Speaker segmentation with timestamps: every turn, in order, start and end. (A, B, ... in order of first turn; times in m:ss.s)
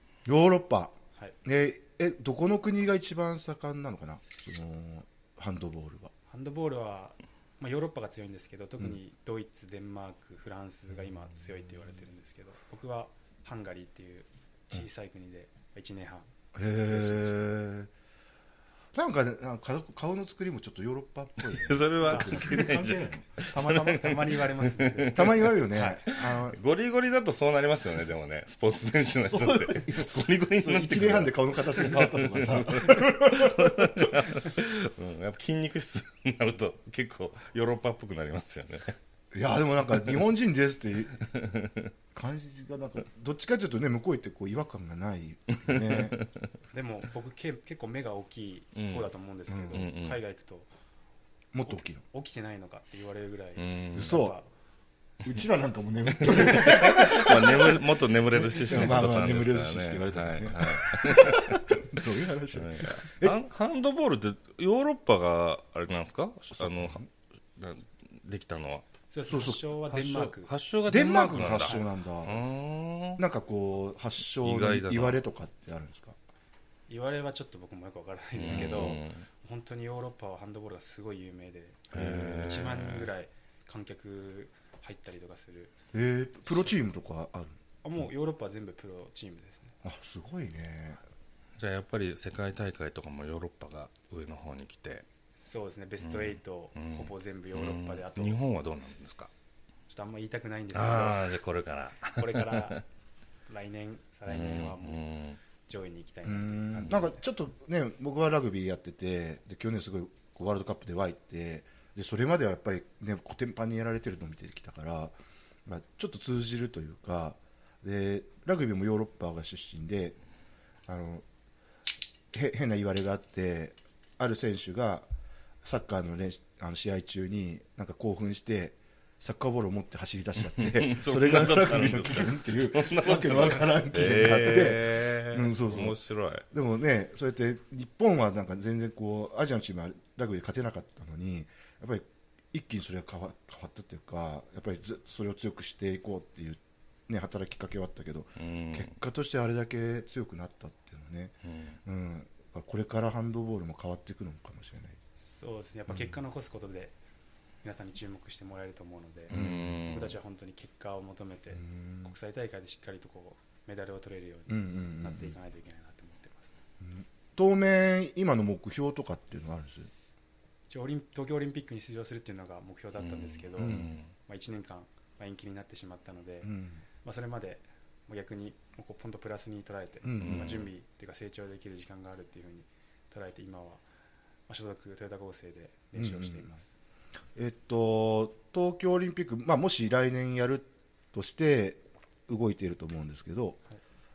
0:00.2-0:06.1 A
0:06.3-0:16.3 B
0:16.5-0:17.9 A
0:16.8-0:17.4 B
0:18.9-0:23.2 A
0:21.4-0:39.0 C
0:22.0-0:26.0 B
0:25.1-0:26.6 A
0:29.2-0:34.3 A
0:39.3-0:41.2 A
0:41.3-0:41.9 C
0:42.1-0:46.2 A
0:45.5-0:46.4 C
0:46.7-0:50.7 B
0:48.7-0:49.1 C
0:49.5-0:49.8 A
0:49.7-0:50.2 C
0:51.5-0:52.0 A
0:51.6-0:54.5 B
0:53.6-0:54.3 C
0:53.9-0:54.4 A
0:55.2-1:03.4 A
0:56.1-1:01.8 C
1:02.5-1:07.0 C
1:06.6-1:07.0 A
1:07.6-1:08.9 C
1:09.1-1:10.5 B
1:09.3-1:09.6 A
1:09.9-1:13.2 C
1:10.9-1:12.4 A
1:13.2-1:16.2 A
1:14.3-1:15.2 C
1:16.9-1:25.7 B
1:18.4-1:19.2 C
1:18.5-1:19.0 A
1:21.9-1:23.1 C
1:25.9-1:27.6 A
1:27.8-1:29.8 B
1:29.8-1:31.0 A
1:31.6-1:35.0 C
1:35.4-1:38.4 B
1:36.0-1:39.3 C
1:39.9-1:41.3 B
1:40.7-1:42.8 C
1:42.1-1:42.8 B
1:43.5-1:45.0 B
1:44.3-1:45.4 C
1:45.6-1:47.2 B
1:46.2-1:55.1 A
1:55.6-2:00.2 A
2:00.9-2:01.2 A
2:02.3-2:05.1 A
2:05.6-2:16.0 A
2:10.4-2:16.4 C
2:16.5-2:31.3 A
2:28.4-2:28.9 C
2:31.4-2:31.8 C
2:31.8-2:35.0 A
2:35.2-2:36.9 B
2:35.9-2:36.1 A
2:37.6-2:46.6 B
2:39.3-2:39.9 A
2:39.3-2:40.2 C
2:41.5-2:42.1 A
2:44.5-2:45.3 A
2:46.8-2:49.9 A
2:50.7-3:03.8 B
2:53.0-2:54.1 C
2:53.6-2:53.9 A
2:56.4-2:56.8 A
3:00.0-3:00.6 A
3:00.2-3:00.7 C
3:04.5-3:06.7 B
3:05.9-3:06.5 A
3:07.3-3:13.6 A